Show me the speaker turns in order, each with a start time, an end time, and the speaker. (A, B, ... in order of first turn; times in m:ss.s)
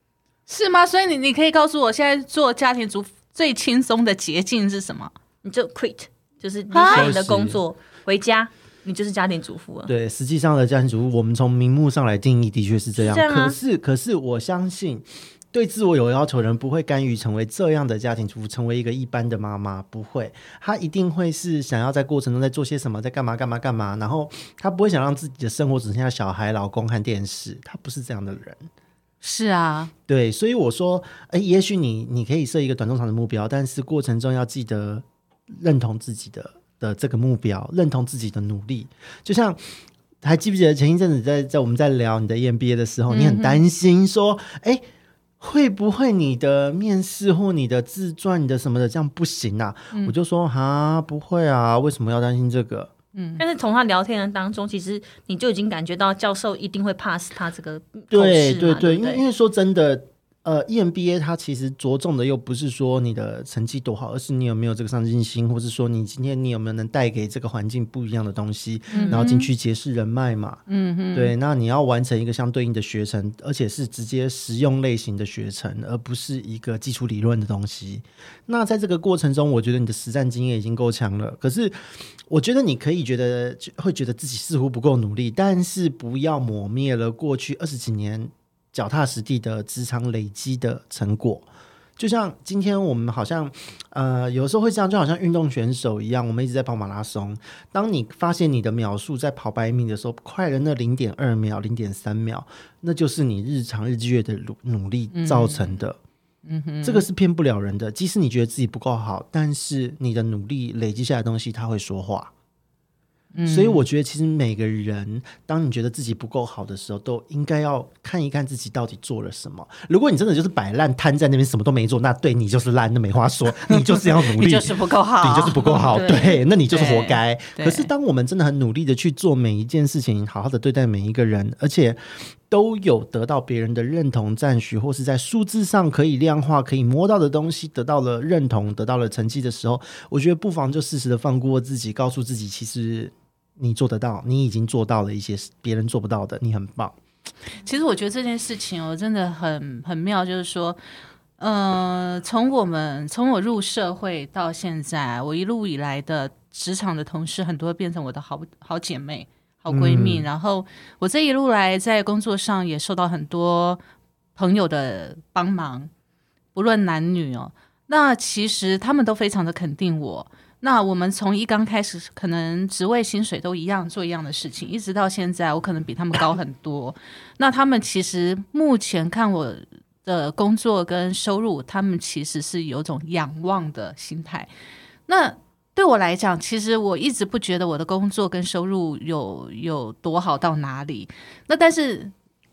0:00.5-0:05.1 A
0:05.4-0:09.9 B
0:06.7-0:07.1 A
0:06.9-0:07.6 C
0:09.9-0:28.7 C
0:13.0-0:13.6 B
0:29.2-0:29.9 A
0:30.1-0:44.8 C
0:43.1-0:43.6 A
0:45.4-0:52.9 C
0:53.1-0:53.4 A
0:53.4-0:59.2 B
0:58.1-1:10.6 C
1:08.9-1:09.5 A
1:08.9-1:09.2 B
1:10.7-1:11.3 A
1:11.1-1:21.7 C
1:22.3-1:31.5 C
1:32.0-1:46.0 C
1:45.1-1:45.8 A
1:46.4-1:47.0 A
1:46.8-1:52.3 C
1:53.3-1:53.8 A
1:53.5-2:27.0 C
2:03.7-2:07.9 A
2:05.9-2:06.4 B
2:27.6-2:30.8 A
2:31.4-2:43.8 A
2:39.7-2:40.3 C
2:44.4-2:45.9 A
2:46.5-3:04.5 A
3:05.1-3:12.1 A